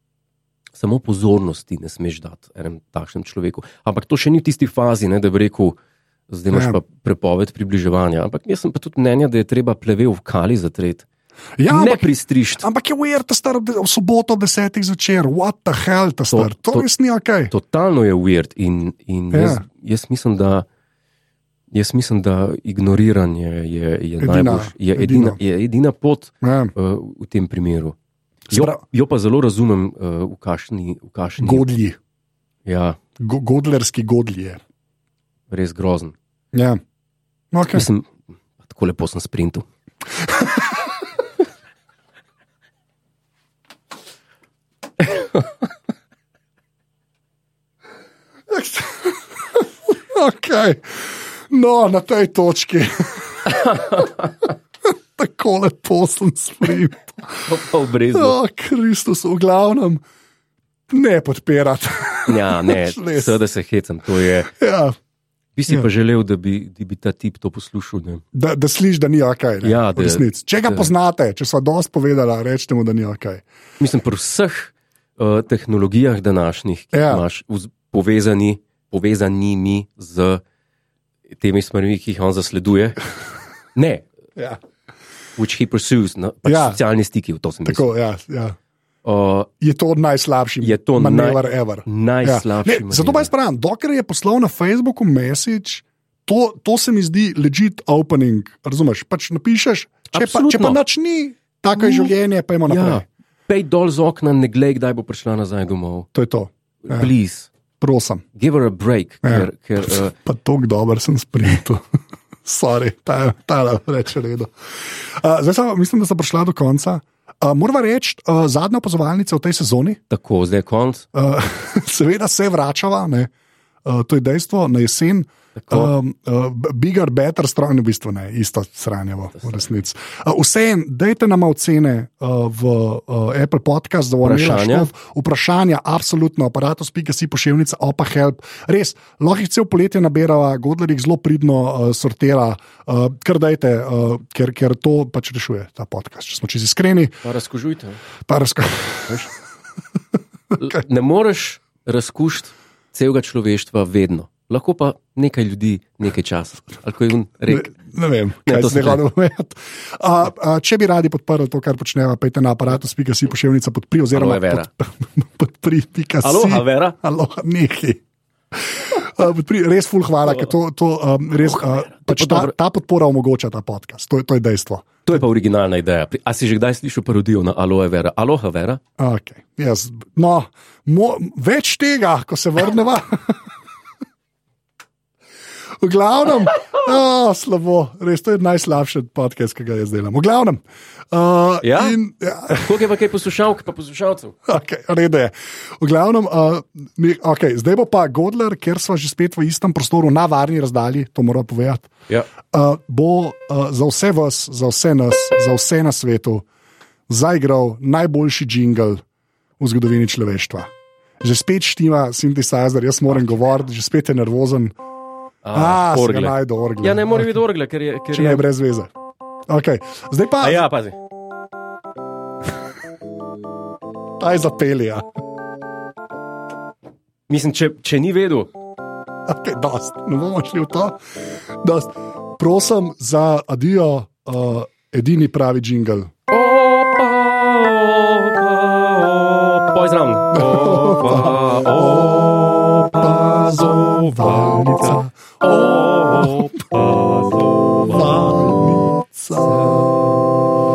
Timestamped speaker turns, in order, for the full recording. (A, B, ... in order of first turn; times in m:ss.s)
0:00.8-0:05.8 A
0:06.3-0:11.0 A
0:06.5-0:06.8 B
0:11.6-0:17.5 B
0:11.7-0:12.6 A
0:16.3-0:16.9 A
0:17.5-0:20.6 A
0:19.3-0:19.6 B
0:21.7-0:27.9 A
0:24.2-0:25.4 B
0:26.4-0:26.7 B
0:28.5-0:31.7 A
0:28.5-0:28.8 B
0:31.4-0:32.0 B
0:32.6-0:33.0 A
0:33.2-0:34.6 B
0:35.5-0:36.1 A
0:36.5-0:36.8 B
0:37.5-0:37.9 B
0:37.7-0:39.6 A
0:45.1-0:45.4 A
0:48.5-0:54.1 B
0:53.4-0:54.5 A
0:55.2-0:57.5 B
0:57.4-0:58.4 A
0:58.1-1:00.0 B
1:00.9-1:03.4 B
1:02.2-1:04.5 A
1:04.5-1:04.9 B
1:05.6-1:08.2 A
1:08.3-1:13.4 B
1:09.6-1:10.9 A
1:13.8-1:20.4 A
1:16.9-1:17.2 B
1:21.4-1:23.0 A
1:23.7-1:24.1 A
1:25.4-1:27.9 A
1:26.4-1:26.8 B
1:27.6-1:28.6 B
1:29.0-1:29.5 A
1:29.6-1:43.0 B
1:30.6-1:33.3 A
1:40.1-1:40.8 A
1:41.8-1:42.1 A
1:42.7-1:46.1 A
1:46.1-1:47.1 B
1:46.8-1:47.5 A
1:47.8-1:48.2 B
1:48.4-1:50.1 A
1:50.2-1:51.8 B
1:52.4-2:00.0 B
2:00.1-2:01.0 A
2:01.1-2:03.3 B
2:03.8-2:27.2 B
2:05.6-2:05.9 A
2:14.2-2:14.9 A
2:27.2-2:28.0 A
2:28.3-2:29.3 B
2:30.6-2:37.8 A
2:37.5-2:48.0 B
2:38.4-2:39.0 A
2:44.1-2:44.7 A
2:46.2-2:47.0 A
2:48.5-2:54.9 B
2:51.4-2:52.5 A
2:55.0-2:58.8 A
2:59.0-3:03.4 B
3:05.8-3:12.7 B
3:11.6-3:12.0 A
3:12.5-3:14.3 A
3:14.5-3:21.9 B
3:22.5-3:26.4 B
3:27.1-3:29.0 B
3:29.6-3:30.7 B
3:31.2-3:34.8 B
3:35.4-3:38.4 A
3:35.5-3:37.4 B
3:38.1-3:38.9 B
3:39.5-3:40.6 B
3:40.4-3:41.0 A
3:44.2-3:45.0 B
3:47.3-3:48.5 A
3:49.2-3:51.0 B
3:51.6-3:56.1 B
3:56.3-4:08.1 A
4:00.3-4:05.2 B
4:06.2-4:06.6 B
4:07.8-4:10.0 B